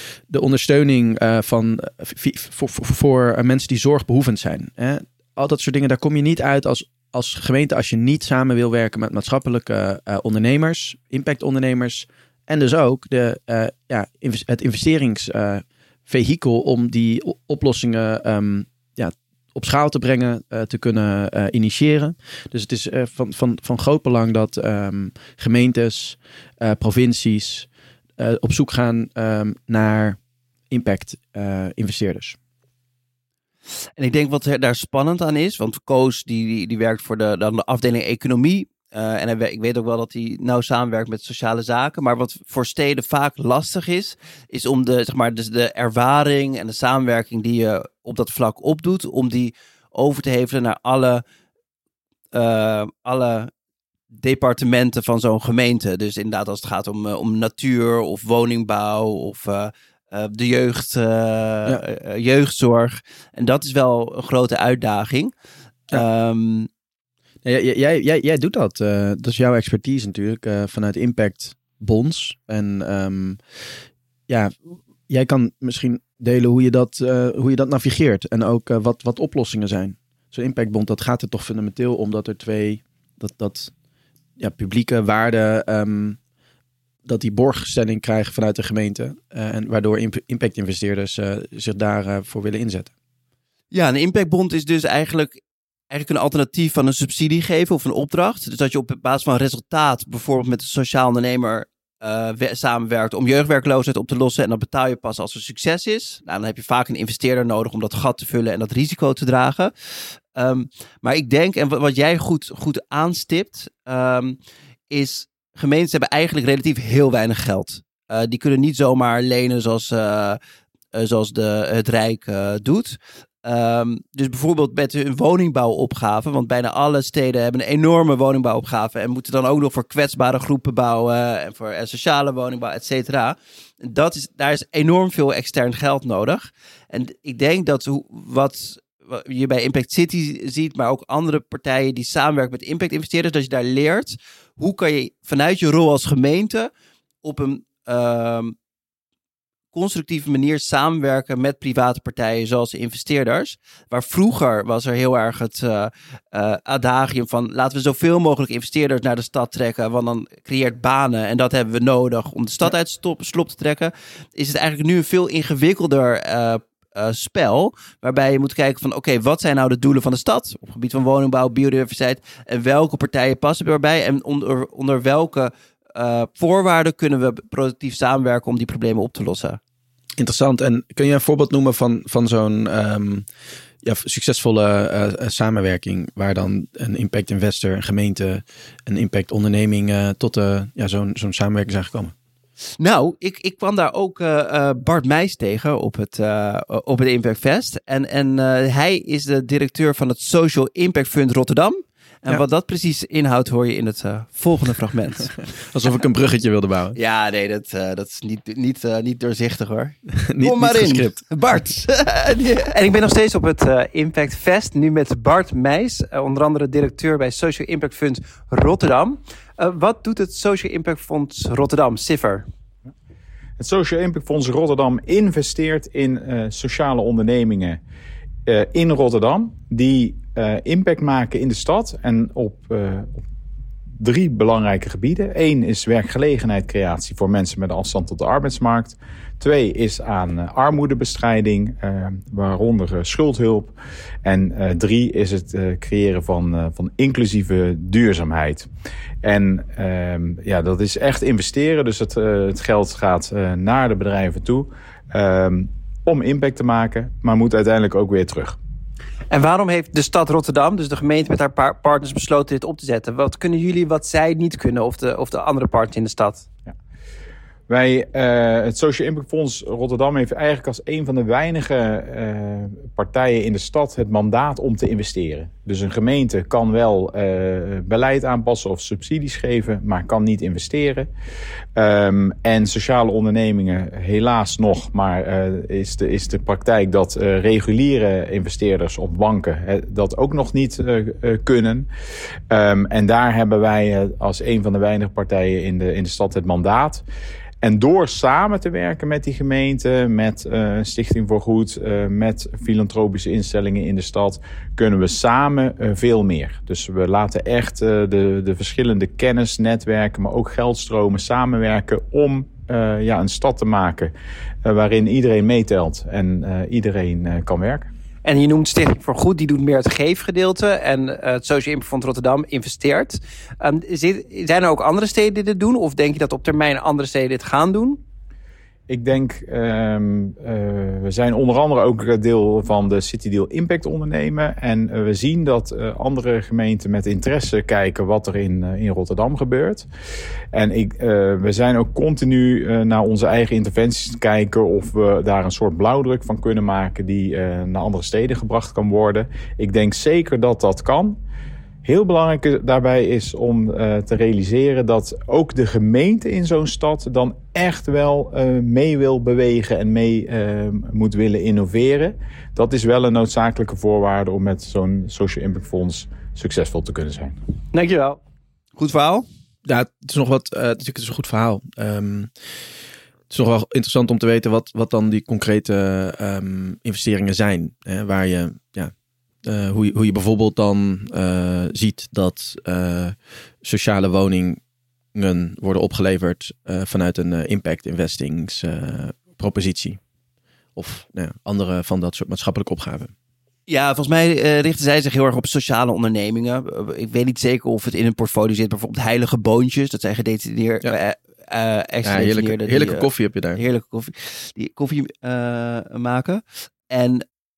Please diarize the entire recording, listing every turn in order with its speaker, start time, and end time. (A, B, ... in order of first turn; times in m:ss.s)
0:00.3-0:30.2 A
0:30.7-0:32.4 A
0:34.0-0:51.2 B
0:52.3-0:53.5 B
0:54.1-1:05.3 B
1:05.9-1:06.7 B
1:07.4-1:13.4 A
1:14.3-1:23.7 A
1:24.4-1:26.2 A
1:27.0-1:32.9 A
1:33.7-1:35.4 B
1:35.9-1:49.7 B
1:50.4-1:54.4 B
1:54.9-2:00.4 B
2:00.9-2:26.7 B
2:27.2-2:28.6 B
2:29.7-2:59.6 B
3:00.2-3:03.3 A
3:03.8-3:12.1 A
3:12.8-3:25.3 B
3:25.6-3:27.0 A
3:27.0-3:42.4 B
3:30.1-3:31.2 A
3:43.6-3:47.8 C
3:48.5-3:53.2 C
3:54.0-4:03.7 C
4:04.2-4:08.7 C
4:09.2-4:18.6 C
4:19.3-4:26.5 B
4:27.7-4:41.1 C
4:41.8-4:51.9 C
4:52.5-4:57.0 C
4:57.6-5:14.1 C
5:14.6-5:17.9 C
5:18.2-5:28.0 B
5:28.9-5:39.9 C
5:40.5-5:51.2 C
5:51.8-6:07.4 C
6:07.7-6:08.2 B
6:08.8-6:09.2 B
6:09.7-6:12.3 A
6:13.3-6:18.9 A
6:19.4-6:24.6 A
6:25.1-6:30.0 A
6:30.8-6:33.1 A
6:33.7-6:47.2 B
6:42.0-6:43.6 A